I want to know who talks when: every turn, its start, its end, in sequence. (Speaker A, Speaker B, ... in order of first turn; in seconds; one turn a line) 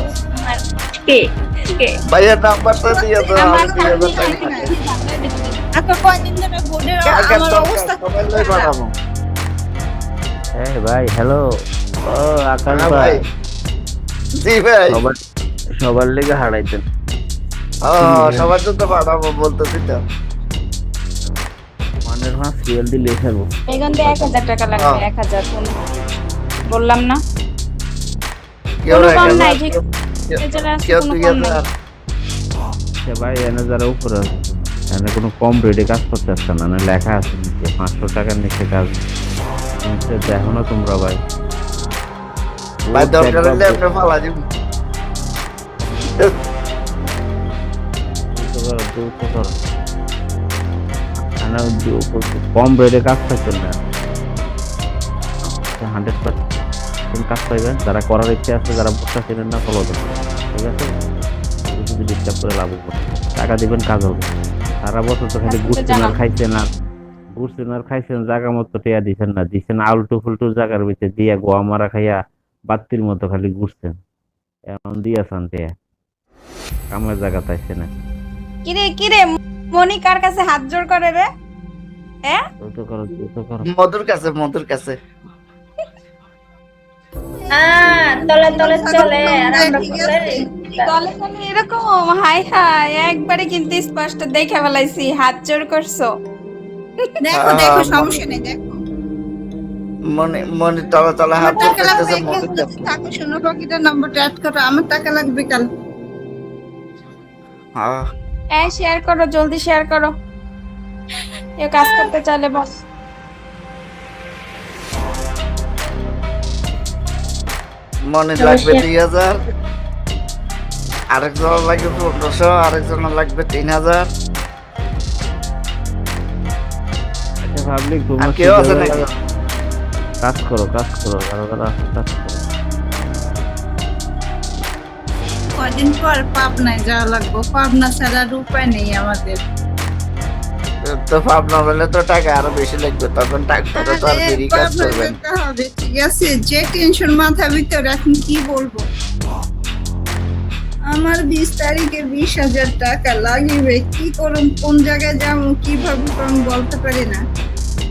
Speaker A: 0.4-1.9
Speaker B: 2.1-4.7
Speaker C: 3.3-4.8
Speaker D: 3.4-5.6
Speaker C: 5.7-8.7
Speaker B: 7.0-8.9
Speaker E: 10.6-11.4
Speaker E: 12.1-13.3
Speaker B: 12.7-13.2
Speaker B: 14.4-15.0
Speaker E: 14.9-15.2
Speaker E: 15.8-16.8
Speaker B: 17.8-20.0
Speaker E: 18.0-18.5
Speaker E: 22.1-24.4
Speaker D: 23.7-26.1
Speaker D: 26.7-27.2
Speaker B: 28.8-31.7
Speaker D: 28.9-29.8
Speaker D: 30.4-31.6
Speaker E: 33.0-39.0
Speaker E: 39.7-41.2
Speaker E: 42.8-43.8
Speaker B: 42.9-44.4
Speaker E: 48.3-49.5
Speaker E: 51.4-53.8
Speaker E: 55.4-56.4
Speaker E: 57.1-60.9
Speaker E: 61.7-64.3
Speaker E: 64.8-66.7
Speaker D: 65.5-66.2
Speaker E: 67.4-72.2
Speaker E: 72.7-74.0
Speaker E: 74.7-75.7
Speaker E: 76.9-77.9
Speaker D: 78.7-81.3
Speaker E: 82.6-83.7
Speaker B: 83.7-85.0
Speaker C: 87.5-90.9
Speaker A: 88.7-89.2
Speaker D: 90.8-96.1
Speaker C: 97.2-98.8
Speaker B: 97.3-98.2
Speaker B: 100.1-102.9
Speaker C: 101.4-105.7
Speaker B: 107.8-108.1
Speaker D: 108.6-110.1
Speaker D: 111.6-112.7
Speaker B: 118.1-119.4
Speaker A: 118.4-118.8
Speaker B: 121.1-124.1
Speaker E: 127.4-129.1
Speaker B: 128.2-129.1
Speaker E: 130.2-132.4
Speaker C: 135.6-139.4
Speaker B: 140.8-145.2
Speaker C: 143.8-148.8
Speaker C: 150.9-157.2